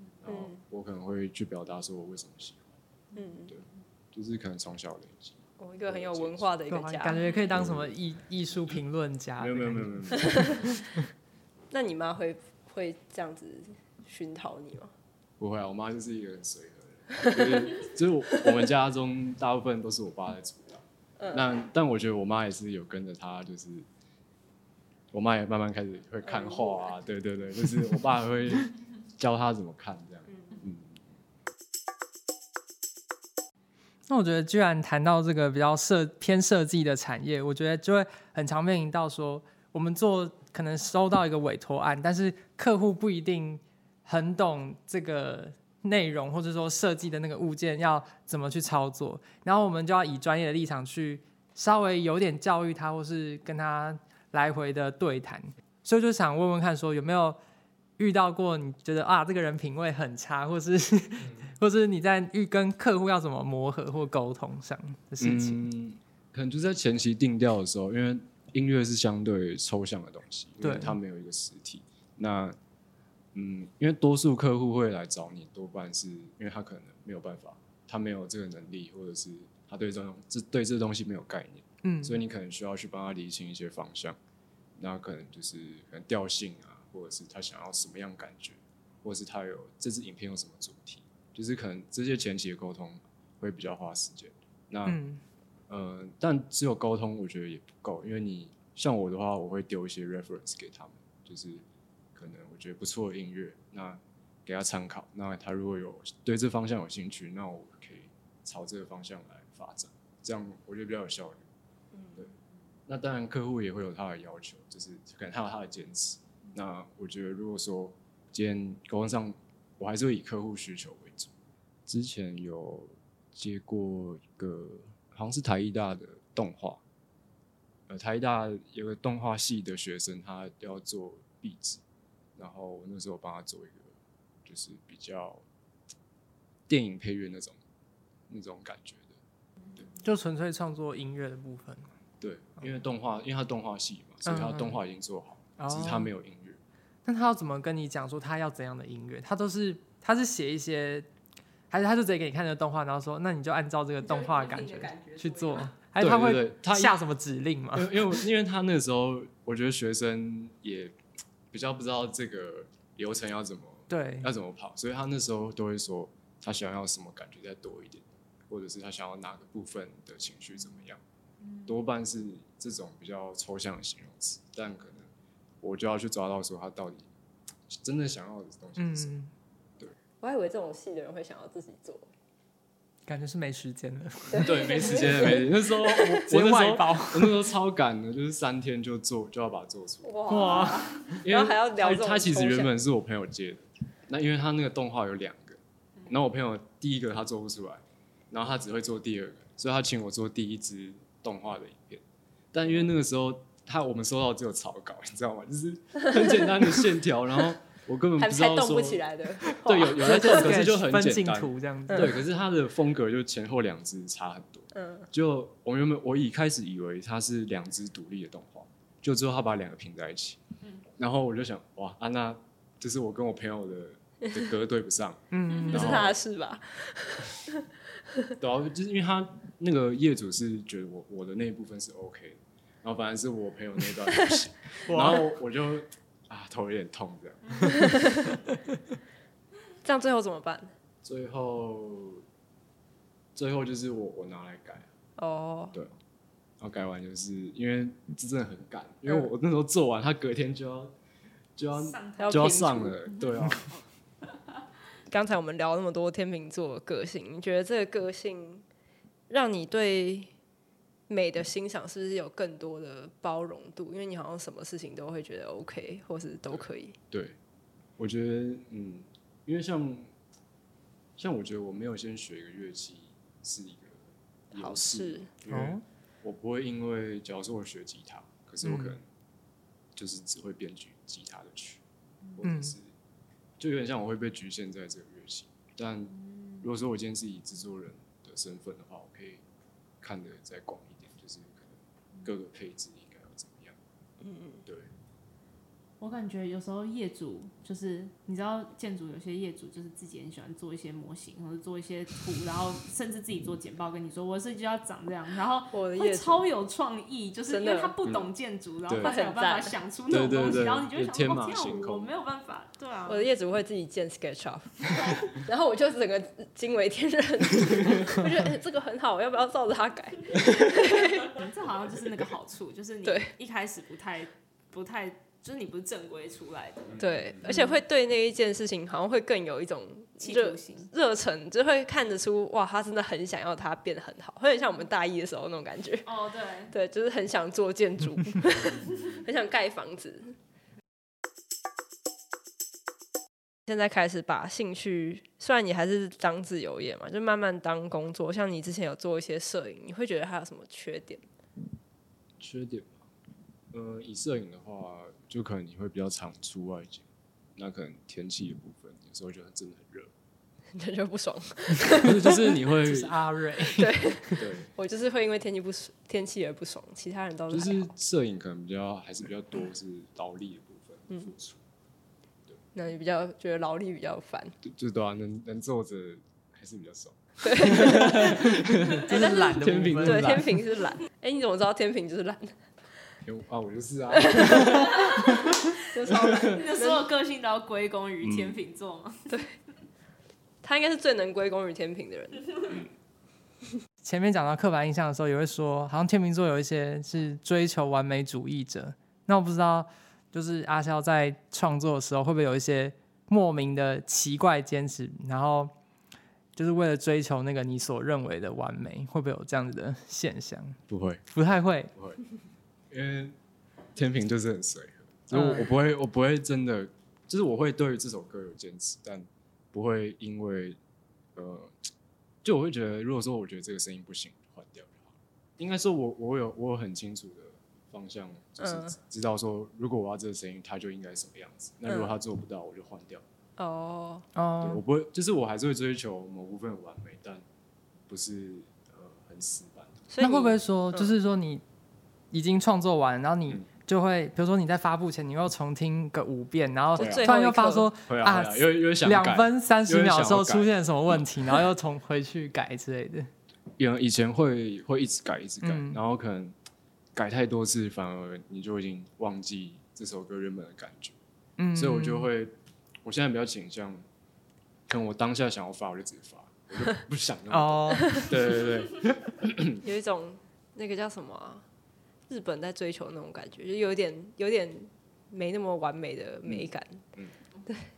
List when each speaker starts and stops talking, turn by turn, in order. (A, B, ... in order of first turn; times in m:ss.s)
0:00.2-0:02.7 A
0:00.3-0:00.6 B
0:03.1-0:03.5 B
0:03.5-0:06.5 A
0:05.6-0:07.2 B
0:06.7-0:11.0 C
0:07.5-0:08.0 A
0:09.4-0:10.6 A
0:11.7-0:14.9 B
0:15.4-0:23.9 A
0:21.2-0:21.4 B
0:25.1-0:31.0 A
0:26.2-0:27.0 B
0:30.3-0:30.6 B
0:34.1-0:57.4 C
0:58.0-1:05.6 C
1:05.2-1:12.6 A
1:10.6-1:11.0 C
1:13.3-1:24.2 A
1:21.8-1:22.2 C
1:24.8-1:35.0 A
1:34.8-1:35.2 C
1:35.7-1:41.6 A
1:42.1-1:51.4 A
1:52.9-2:01.3 A
2:01.9-2:06.8 A
2:07.9-2:11.8 A
2:12.4-2:13.9 A
2:14.4-2:15.4 A
2:16.7-2:17.6 A
2:18.3-2:19.2 A
2:20.0-2:21.9 C
2:22.2-2:26.6 A
2:24.2-2:24.8 C
2:25.6-2:26.1 C
2:27.0-2:31.1 C
2:31.7-2:38.2 C
2:34.0-2:35.7 B
2:36.0-2:37.0 A
2:37.7-2:40.9 A
2:41.5-2:51.0 A
2:43.9-2:44.3 C
2:51.4-2:51.8 D
2:51.6-2:55.1 A
2:55.6-2:57.1 A
2:57.7-2:59.1 A
2:58.8-2:59.3 C
3:00.2-3:02.1 B
3:03.0-3:07.5 C
3:04.3-3:10.2 A
3:04.3-3:06.2 B
3:10.0-3:12.7 B
3:10.3-3:11.2 C
3:11.2-3:22.0 A
3:22.5-3:40.4 A
3:28.2-3:30.5 B
3:29.9-3:32.2 C
3:34.7-3:35.1 B
3:41.0-3:46.2 A
3:45.3-3:45.8 C
3:45.5-3:45.9 D
3:45.6-3:47.6 B
3:48.4-3:58.0 A
3:54.1-3:54.4 B
3:54.8-3:55.3 C
3:57.8-3:58.2 B
3:59.8-4:00.7 B
4:01.0-4:02.2 A
4:03.4-4:04.9 A
4:05.2-4:05.7 B
4:06.6-4:10.9 A
4:11.6-4:13.7 A
4:11.7-4:12.6 D
4:12.2-4:13.0 B
4:15.1-4:18.6 B
4:19.3-4:20.3 B
4:21.1-4:27.0 B
4:26.5-4:27.4 A
4:28.0-4:30.1 A
4:31.2-4:39.0 A
4:34.5-4:35.3 B
4:35.5-4:35.8 C
4:38.6-4:39.0 C
4:40.0-4:41.8 A
4:42.4-4:42.9 A
4:42.4-4:42.8 C
4:43.6-4:49.4 A
4:46.3-4:46.6 D
4:50.0-4:53.8 A
4:54.2-4:54.6 B
4:54.6-4:54.9 A
4:56.0-5:13.3 D
5:05.7-5:06.4 B
5:07.5-5:07.9 B
5:08.0-5:08.3 A
5:08.9-5:09.1 A
5:09.0-5:09.8 B
5:10.1-5:12.1 A
5:13.1-5:21.4 B
5:21.2-5:27.8 D
5:23.0-5:23.3 B
5:27.0-5:36.0 B
5:30.2-5:30.9 D
5:36.0-5:36.7 D
5:36.7-5:40.3 B
5:43.7-5:51.2 B
5:52.4-5:53.1 A
5:53.7-6:00.1 A
6:00.7-6:02.6 B
6:02.0-6:03.2 A
6:02.7-6:04.4 C
6:03.6-6:07.8 B
6:04.4-6:04.7 A
6:07.5-6:11.6 A
6:12.7-6:14.5 B
6:14.6-6:20.5 A
6:17.4-6:18.4 B
6:19.0-6:20.5 C
6:19.1-6:22.6 B
6:23.2-6:25.5 A
6:24.2-6:27.1 B
6:26.2-6:29.3 D
6:28.2-6:28.5 A
6:30.6-6:32.7 B
6:34.0-6:45.7 C
6:46.6-6:50.8 C
6:50.9-6:51.2 A
6:51.3-6:51.9 C
6:51.9-6:52.2 A
6:52.9-6:53.4 A
6:53.9-7:00.8 A
6:55.3-6:55.7 C
7:01.4-7:01.9 A
7:02.4-7:13.2 A
7:08.6-7:08.9 B
7:11.9-7:12.1 B
7:13.6-7:14.2 B
7:14.3-7:14.8 C
7:14.6-7:17.4 A
7:18.1-7:20.0 A
7:20.1-7:21.1 B
7:20.2-7:21.6 C
7:22.3-7:33.3 C
7:27.0-7:27.9 B
7:27.0-7:27.3 A
7:28.0-7:30.7 A
7:33.8-7:36.6 A
7:35.6-7:36.0 C
7:37.1-7:41.2 A
7:41.6-7:42.3 C
7:41.7-7:42.5 A
7:43.0-7:44.0 A
7:44.9-7:49.8 A
7:47.5-7:48.2 C
7:49.8-7:51.6 B
7:52.3-7:57.0 B
7:56.4-7:57.3 A